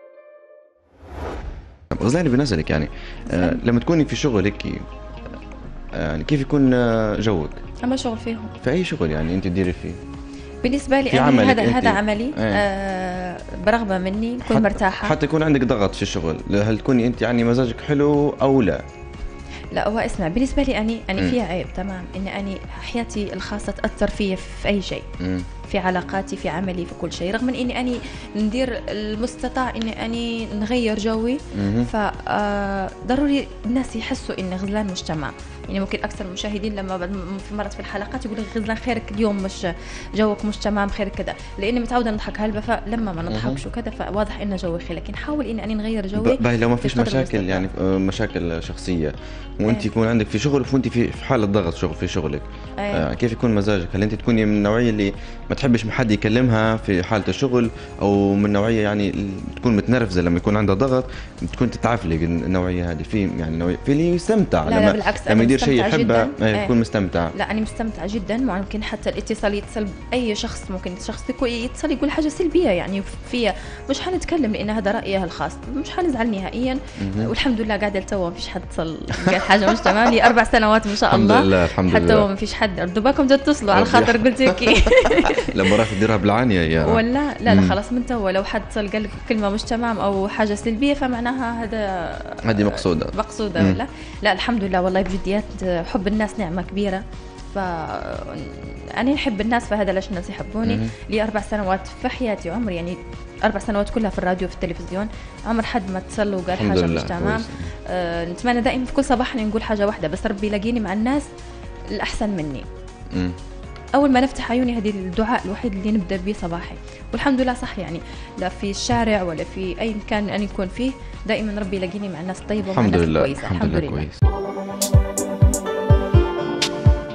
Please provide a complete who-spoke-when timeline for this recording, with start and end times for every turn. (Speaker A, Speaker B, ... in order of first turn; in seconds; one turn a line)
Speaker A: 1.9-4.8
Speaker B: 3.3-3.6
Speaker A: 6.0-7.6
Speaker B: 7.8-8.5
Speaker A: 8.6-10.0
Speaker B: 10.6-15.2
Speaker A: 11.1-12.6
Speaker A: 14.4-18.8
Speaker B: 19.7-25.0
Speaker A: 25.2-25.5
Speaker B: 25.7-47.6
Speaker A: 31.5-31.9
Speaker A: 43.3-43.6
Speaker A: 46.1-67.3
Speaker B: 52.8-53.1
Speaker B: 64.6-66.7
Speaker B: 67.3-86.0
Speaker A: 77.0-77.3
Speaker A: 79.2-79.9
Speaker A: 81.1-82.3
Speaker A: 83.7-87.8
Speaker B: 86.8-97.0
Speaker A: 92.4-93.8
Speaker B: 97.5-111.2
Speaker A: 100.6-100.9
Speaker A: 106.5-107.7
Speaker B: 111.9-112.6
Speaker B: 113.9-124.0
Speaker A: 122.7-124.2